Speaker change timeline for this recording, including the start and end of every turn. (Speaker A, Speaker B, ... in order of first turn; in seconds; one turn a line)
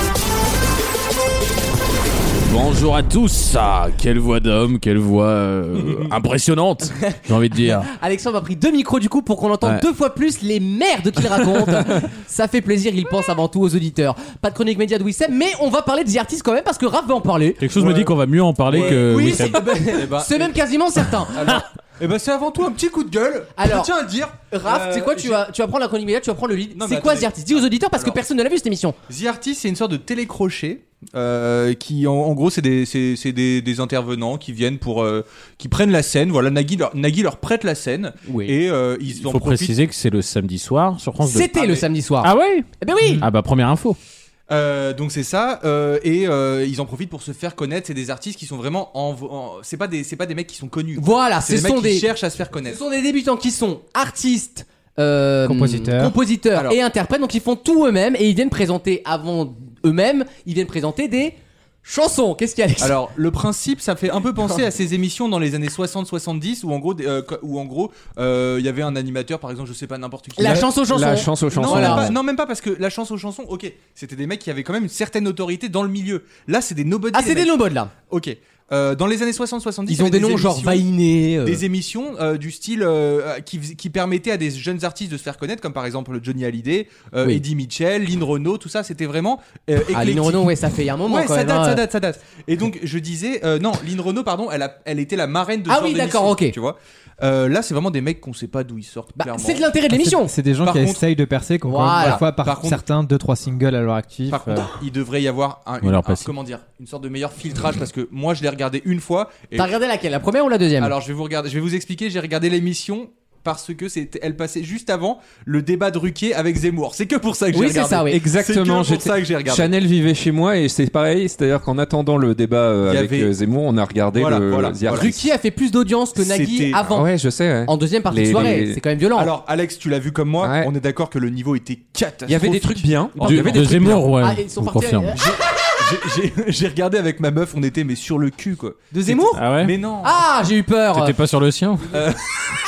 Speaker A: 2.4-7.9
Speaker B: 5.8-6.1
Speaker C: 7.0-17.6
Speaker A: 17.6-19.8
Speaker B: 17.8-18.1
Speaker B: 18.7-20.6
Speaker C: 18.7-21.6
Speaker B: 21.3-25.4
Speaker C: 23.6-23.9
Speaker C: 24.4-28.9
Speaker B: 26.7-28.2
Speaker B: 29.1-39.7
Speaker C: 38.2-38.5
Speaker A: 39.1-41.5
Speaker C: 41.2-43.2
Speaker B: 41.5-41.9
Speaker A: 42.2-44.0
Speaker B: 44.5-52.8
Speaker C: 51.0-52.1
Speaker C: 52.7-63.0
Speaker D: 55.4-56.1
Speaker B: 62.8-70.7
Speaker C: 70.3-72.1
Speaker E: 70.4-72.2
Speaker B: 71.5-80.9
Speaker C: 77.1-77.9
Speaker C: 79.9-81.6
Speaker B: 81.4-99.8
Speaker C: 89.9-91.8
Speaker C: 95.7-96.5
Speaker C: 99.2-100.3
Speaker D: 100.1-104.7
Speaker B: 100.6-101.0
Speaker C: 101.6-102.2
Speaker B: 101.9-102.8
Speaker B: 104.3-109.7
Speaker A: 105.8-106.3
Speaker C: 109.5-110.9
Speaker B: 110.8-119.7
Speaker C: 117.5-118.2
Speaker E: 118.1-125.2
Speaker B: 122.8-123.3
Speaker B: 124.1-125.1
Speaker C: 124.9-127.1
Speaker B: 126.1-126.8
Speaker E: 126.9-128.8
Speaker C: 127.6-129.3
Speaker B: 129.1-134.0
Speaker E: 130.4-130.7
Speaker E: 132.2-134.1
Speaker A: 133.2-135.2
Speaker C: 134.2-135.3
Speaker B: 135.1-140.2
Speaker C: 138.9-139.4
Speaker A: 139.3-139.8
Speaker C: 140.0-141.1
Speaker A: 140.9-141.9
Speaker B: 141.9-142.2